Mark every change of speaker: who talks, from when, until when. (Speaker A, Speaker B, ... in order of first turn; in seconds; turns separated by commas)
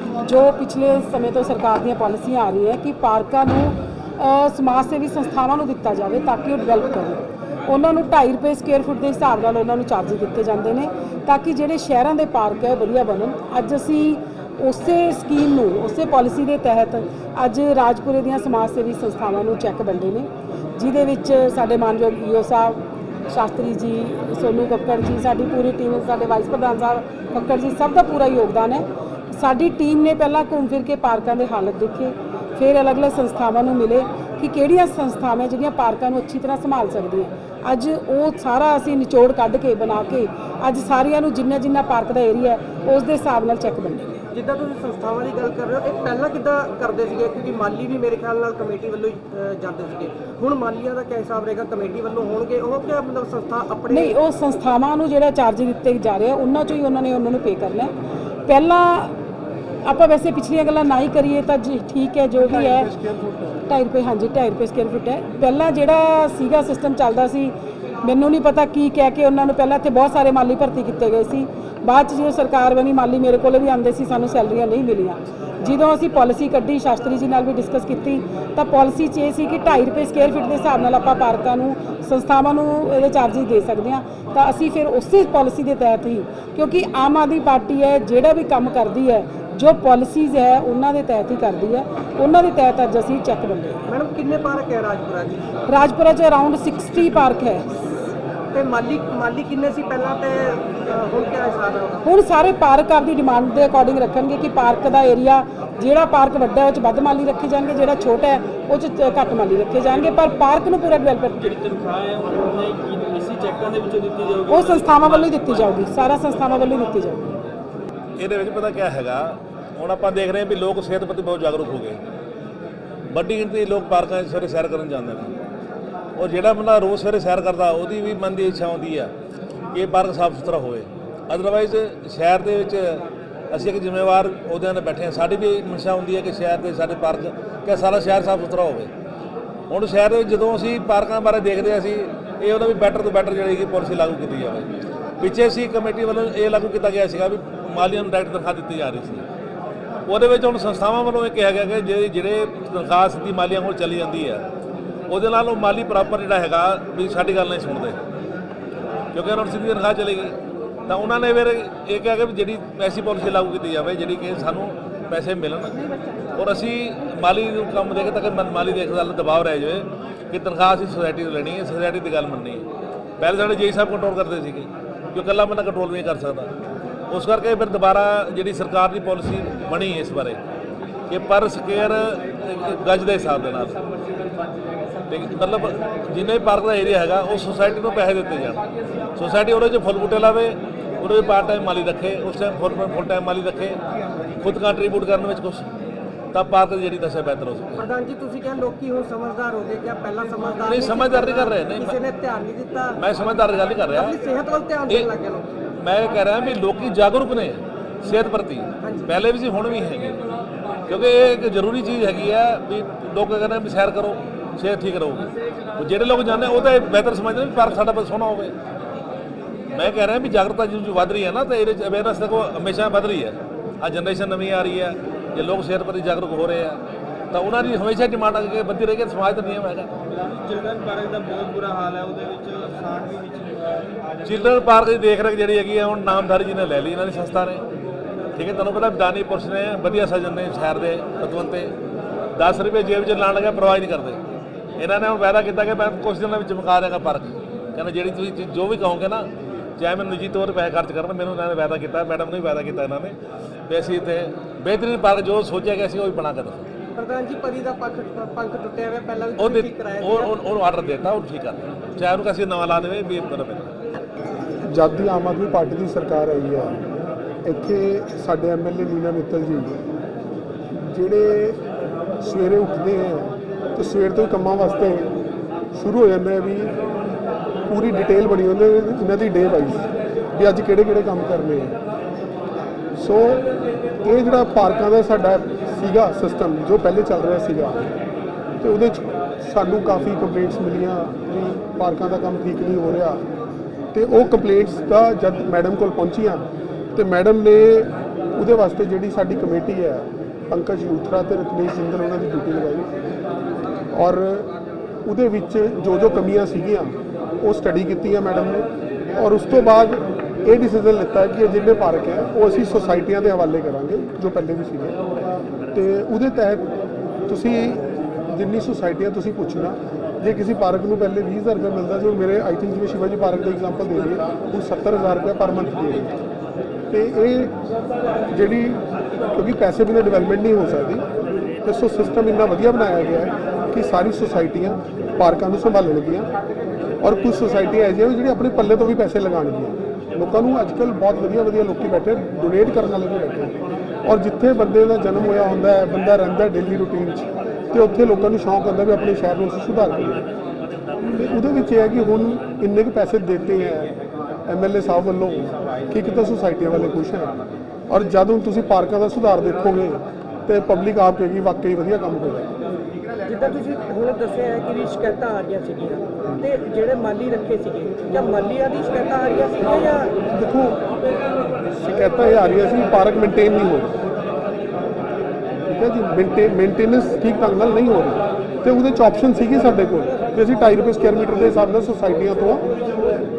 Speaker A: 0.2-44.0, Speaker B: 44.3-54.2, Speaker A: 53.9-57.9, Speaker A: 58.5-59.1, Speaker A: 59.8-93.8, Speaker B: 93.9-95.5, Speaker A: 95.7-97.7, Speaker B: 98.5-102.0, Speaker A: 102.0-111.5, Speaker C: 111.4-115.3, Speaker A: 114.5-117.3, Speaker D: 118.2-122.0, Speaker D: 123.1-125.3, Speaker D: 126.2-129.1, Speaker D: 129.7-138.9, Speaker D: 139.7-144.7, Speaker D: 145.2-149.2, Speaker D: 150.1-154.5, Speaker D: 155.1-158.0, Speaker D: 159.1-160.3, Speaker D: 160.9-172.7, Speaker D: 173.2-176.5, Speaker D: 177.1-180.4, Speaker D: 181.1-183.8, Speaker D: 185.1-188.6, Speaker D: 189.2-193.8, Speaker D: 194.4-195.7, Speaker D: 196.3-197.8, Speaker B: 197.8-203.0, Speaker D: 200.7-202.0, Speaker D: 203.0-204.2, Speaker B: 203.9-205.6, Speaker D: 205.8-210.2, Speaker B: 208.8-209.1, Speaker D: 210.9-218.5, Speaker D: 219.7-226.8, Speaker D: 227.3-229.9, Speaker C: 230.1-233.9, Speaker D: 234.2-237.7, Speaker D: 238.3-241.8, Speaker D: 242.3-244.2, Speaker D: 244.8-253.2, Speaker D: 253.7-256.7, Speaker B: 256.9-260.3, Speaker D: 259.4-263.7, Speaker E: 264.6-266.7, Speaker E: 267.4-269.7, Speaker E: 270.7-271.6, Speaker E: 272.2-275.1, Speaker E: 275.8-276.7, Speaker E: 277.7-281.8, Speaker E: 283.0-283.4, Speaker E: 284.0-287.8, Speaker E: 288.6-293.2, Speaker E: 293.9-296.4, Speaker E: 297.0-302.9, Speaker E: 303.9-304.5, Speaker E: 305.1-315.0, Speaker E: 315.7-316.6, Speaker E: 317.3-326.1, Speaker E: 326.9-327.5, Speaker E: 328.3-328.8, Speaker E: 329.3-331.1, Speaker E: 331.6-336.3, Speaker E: 337.0-350.2, Speaker E: 351.1-353.9, Speaker E: 354.5-357.3, Speaker E: 357.9-362.5, Speaker B: 363.2-370.1, Speaker E: 370.3-370.8, Speaker E: 371.8-373.9, Speaker E: 375.7-382.6